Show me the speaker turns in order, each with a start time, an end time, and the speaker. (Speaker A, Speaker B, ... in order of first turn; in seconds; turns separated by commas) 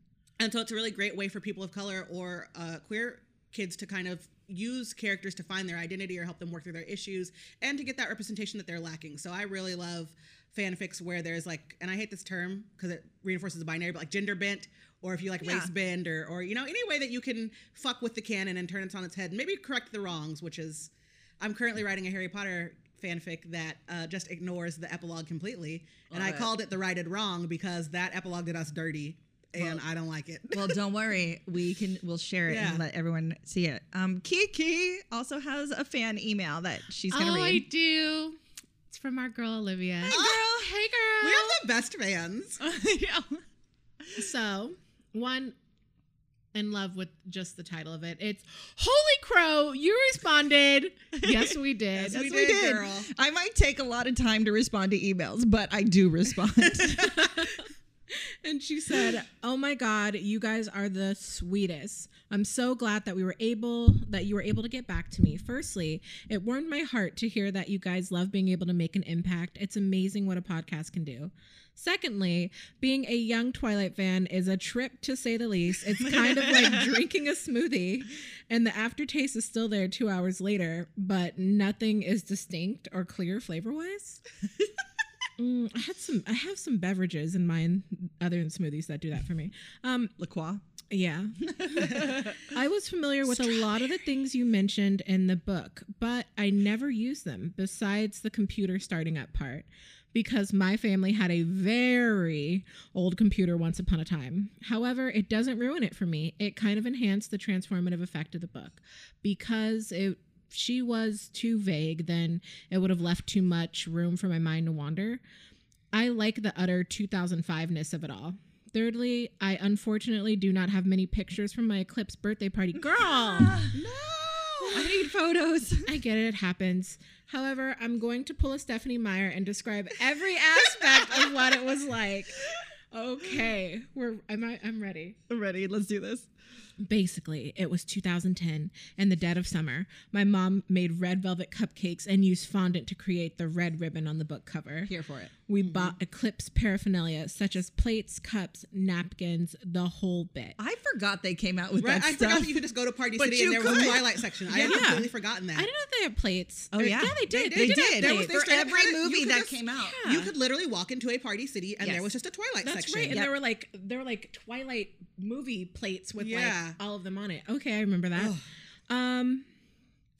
Speaker A: 0.4-30.8, Speaker B: 15.4-15.7, Speaker B: 26.1-26.5, Speaker B: 29.6-29.8, Speaker B: 30.5-37.6, Speaker A: 32.5-32.8, Speaker C: 37.1-38.4, Speaker C: 38.9-41.6, Speaker B: 40.0-40.7, Speaker A: 40.1-40.5, Speaker A: 41.2-42.6, Speaker B: 42.6-43.3, Speaker C: 44.1-45.5, Speaker C: 46.5-52.2, Speaker B: 51.1-57.3, Speaker A: 52.0-53.1, Speaker C: 57.0-84.2, Speaker B: 76.0-77.0, Speaker C: 85.4-90.1, Speaker B: 90.2-90.6, Speaker C: 90.9-115.2, Speaker B: 91.4-92.5, Speaker B: 93.3-93.7, Speaker C: 115.9-123.6, Speaker B: 122.9-123.8, Speaker A: 123.7-124.7, Speaker C: 124.6-124.9, Speaker B: 124.7-125.9, Speaker C: 125.8-135.2, Speaker B: 135.3-136.3, Speaker C: 136.8-144.9, Speaker B: 144.9-145.3, Speaker C: 145.5-150.6, Speaker A: 145.6-145.9, Speaker B: 150.6-152.6, Speaker A: 151.8-155.7, Speaker B: 153.2-154.9, Speaker C: 154.5-158.4, Speaker B: 156.7-160.1, Speaker A: 157.3-163.2, Speaker C: 159.8-160.3, Speaker B: 161.8-162.1, Speaker C: 162.6-168.3, Speaker A: 166.2-166.8, Speaker A: 168.2-168.4, Speaker C: 168.9-169.5